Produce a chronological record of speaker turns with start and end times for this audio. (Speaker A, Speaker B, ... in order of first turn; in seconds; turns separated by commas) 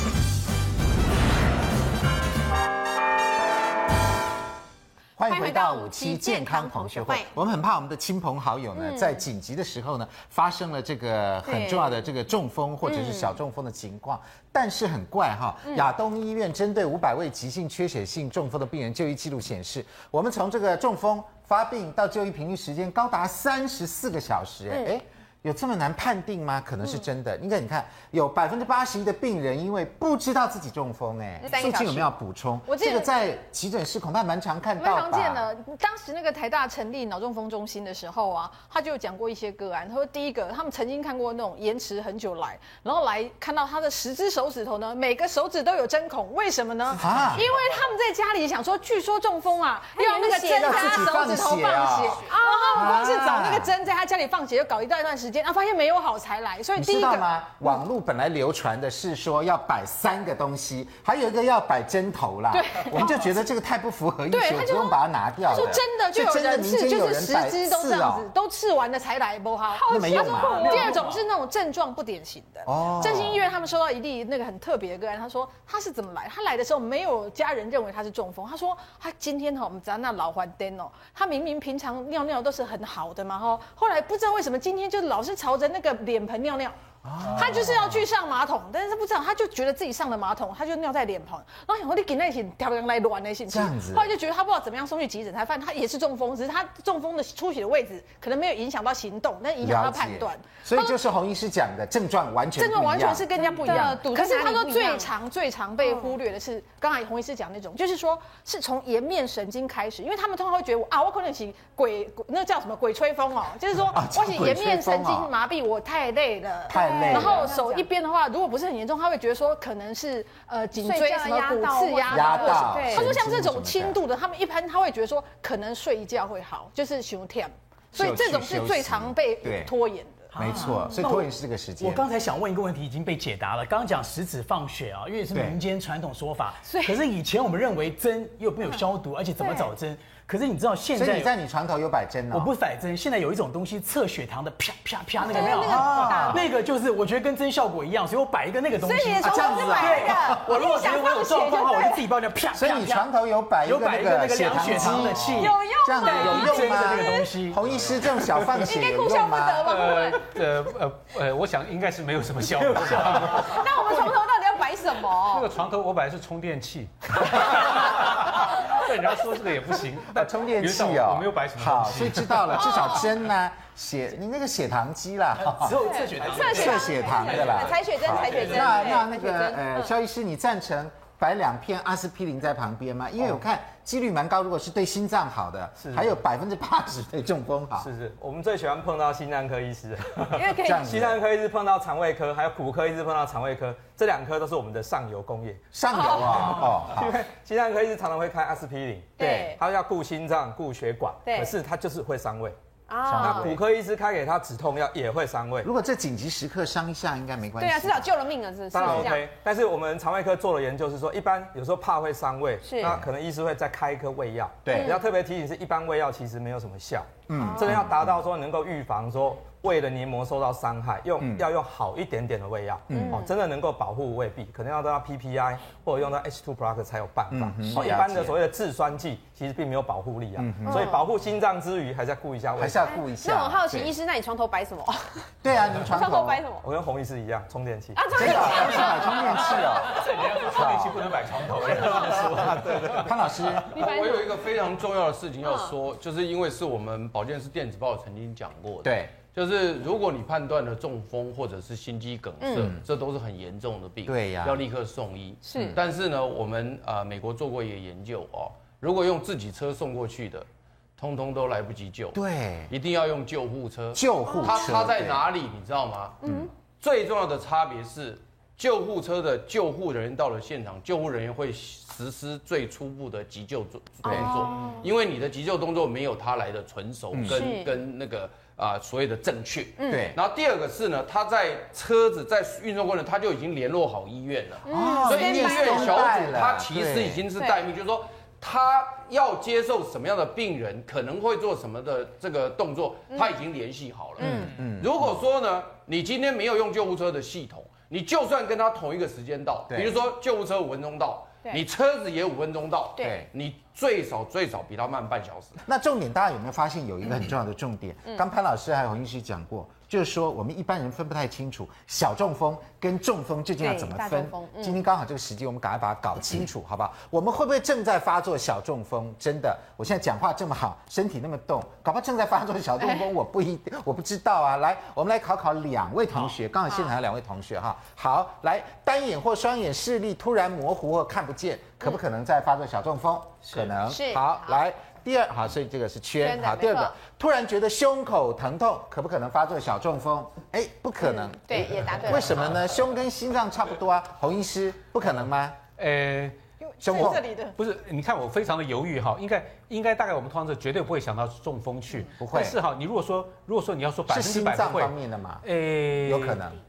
Speaker A: 5.2-35.5, Speaker B: 5.2-7.3, Speaker B: 8.7-9.2, Speaker B: 11.4-12.0, Speaker B: 12.8-13.3, Speaker B: 31.4-32.1, Speaker C: 32.7-33.0, Speaker C: 34.8-57.3, Speaker A: 46.9-47.5, Speaker B: 50.0-51.2, Speaker A: 50.5-53.7, Speaker B: 52.2-53.1, Speaker A: 56.8-68.3, Speaker C: 62.5-63.2, Speaker C: 64.3-100.9, Speaker B: 69.7-71.1, Speaker A: 69.9-70.9, Speaker D: 70.6-71.2, Speaker A: 72.7-73.4, Speaker A: 87.0-88.1, Speaker A: 93.5-94.1, Speaker A: 99.6-104.0, Speaker C: 102.6-130.3, Speaker B: 103.4-105.1, Speaker B: 105.8-106.1, Speaker A: 113.9-115.3, Speaker A: 116.7-117.5, Speaker B: 116.7-117.9, Speaker B: 120.8-123.1, Speaker A: 122.1-124.0, Speaker A: 127.9-129.7, Speaker D: 130.3-141.3, Speaker A: 130.4-132.1, Speaker A: 135.3-135.6, Speaker B: 136.7-137.0, Speaker B: 139.4-139.7, Speaker A: 140.9-142.5, Speaker D: 142.3-157.6, Speaker B: 145.2-146.5, Speaker A: 145.3-146.4, Speaker B: 148.8-152.1, Speaker A: 149.2-150.4, Speaker A: 152.5-159.7, Speaker B: 155.3-157.4, Speaker B: 158.5-160.2, Speaker E: 159.6-164.1, Speaker B: 163.3-165.5, Speaker E: 165.3-172.8, Speaker A: 170.1-175.8, Speaker B: 172.6-173.0, Speaker D: 175.4-177.5, Speaker B: 175.8-179.9, Speaker A: 176.4-187.9, Speaker F: 185.8-186.1, Speaker F: 187.8-195.6, Speaker B: 190.3-190.9, Speaker A: 190.6-191.2, Speaker A: 195.7-197.2, Speaker B: 195.9-196.4, Speaker F: 196.2-202.6, Speaker B: 199.2-199.6, Speaker A: 199.2-199.6, Speaker B: 201.2-201.5, Speaker B: 202.9-203.6, Speaker A: 203.1-203.6, Speaker F: 203.1-205.7, Speaker A: 205.6-208.1, Speaker B: 207.6-209.3, Speaker F: 208.7-232.9, Speaker A: 208.8-209.1, Speaker B: 212.6-213.0, Speaker A: 214.6-215.0, Speaker B: 214.7-215.0, Speaker A: 217.3-218.2, Speaker B: 217.4-217.9, Speaker A: 221.2-221.4, Speaker A: 222.9-223.3, Speaker B: 222.9-223.3, Speaker A: 227.3-228.4, Speaker B: 227.7-228.0, Speaker A: 230.4-230.9, Speaker B: 230.6-231.0, Speaker A: 232.6-233.9, Speaker B: 232.9-235.3, Speaker A: 235.4-236.4, Speaker B: 235.8-236.6, Speaker F: 236.6-238.7, Speaker B: 237.9-239.7, Speaker A: 238.1-241.0, Speaker E: 239.1-243.1, Speaker A: 242.0-243.7, Speaker B: 243.7-244.3, Speaker G: 243.7-260.4, Speaker B: 245.4-245.7, Speaker A: 248.8-249.1, Speaker B: 252.4-252.7, Speaker A: 254.1-254.6, Speaker B: 255.4-255.8, Speaker A: 255.6-255.8, Speaker G: 261.0-262.2, Speaker A: 262.1-262.7, Speaker G: 262.7-266.2, Speaker A: 263.9-265.2, Speaker B: 264.3-264.6, Speaker B: 266.2-266.5, Speaker A: 266.2-266.5, Speaker G: 266.8-305.6, Speaker B: 274.0-274.9, Speaker A: 274.1-274.4, Speaker A: 277.1-277.4, Speaker B: 277.3-277.8, Speaker B: 279.8-280.1, Speaker A: 279.9-280.2, Speaker B: 284.6-286.3, Speaker A: 284.7-287.2, Speaker B: 287.4-287.6, Speaker B: 294.2-294.5, Speaker A: 294.2-295.1, Speaker A: 299.7-300.0, Speaker A: 303.0-303.3, Speaker A: 305.6-345.6, Speaker B: 313.6-314.8, Speaker B: 333.8-334.6, Speaker B: 336.2-336.9, Speaker B: 341.0-342.6, Speaker E: 345.8-346.4, Speaker C: 346.6-347.6, Speaker A: 346.8-347.2, Speaker E: 347.0-356.4, Speaker A: 352.2-352.6, Speaker A: 354.1-355.4, Speaker A: 356.0-356.6